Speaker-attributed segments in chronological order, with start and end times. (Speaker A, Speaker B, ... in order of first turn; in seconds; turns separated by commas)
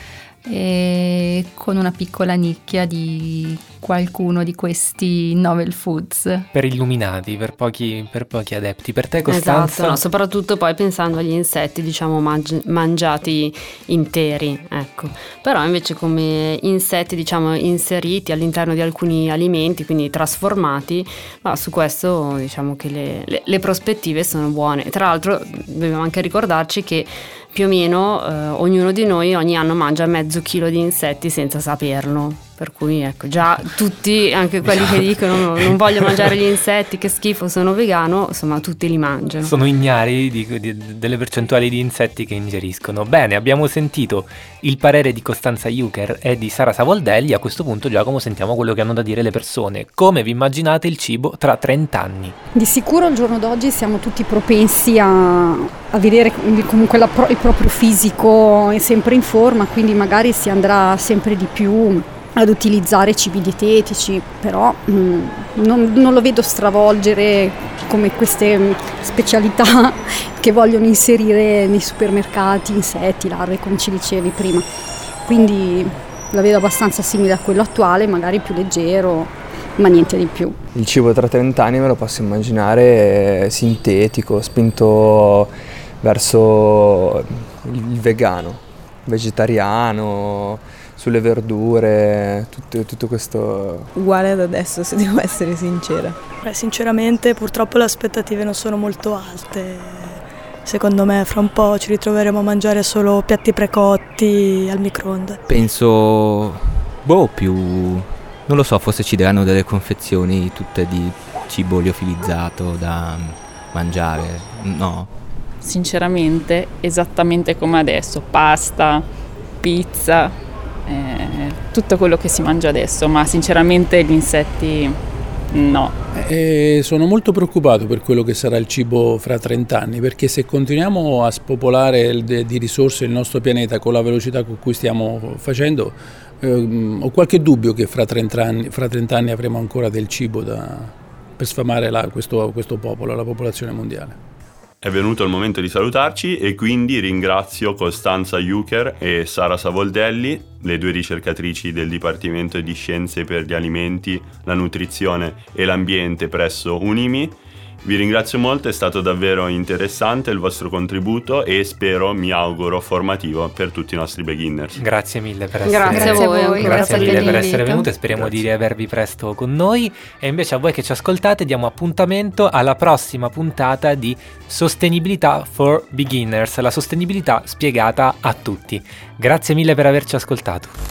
Speaker A: 0.5-6.5, Speaker B: 6.5-10.0, Speaker C: 9.2-39.5, Speaker B: 39.4-52.4, Speaker D: 52.5-74.7, Speaker D: 75.2-80.6, Speaker E: 80.7-93.9, Speaker F: 93.9-96.2, Speaker G: 96.4-105.4, Speaker H: 105.5-115.1, Speaker I: 115.6-119.0, Speaker I: 119.6-125.0, Speaker I: 125.5-126.0, Speaker J: 126.1-144.2, Speaker K: 144.8-164.8, Speaker B: 164.8-180.8, Speaker C: 165.7-167.6, Speaker A: 165.9-167.8, Speaker K: 168.1-168.4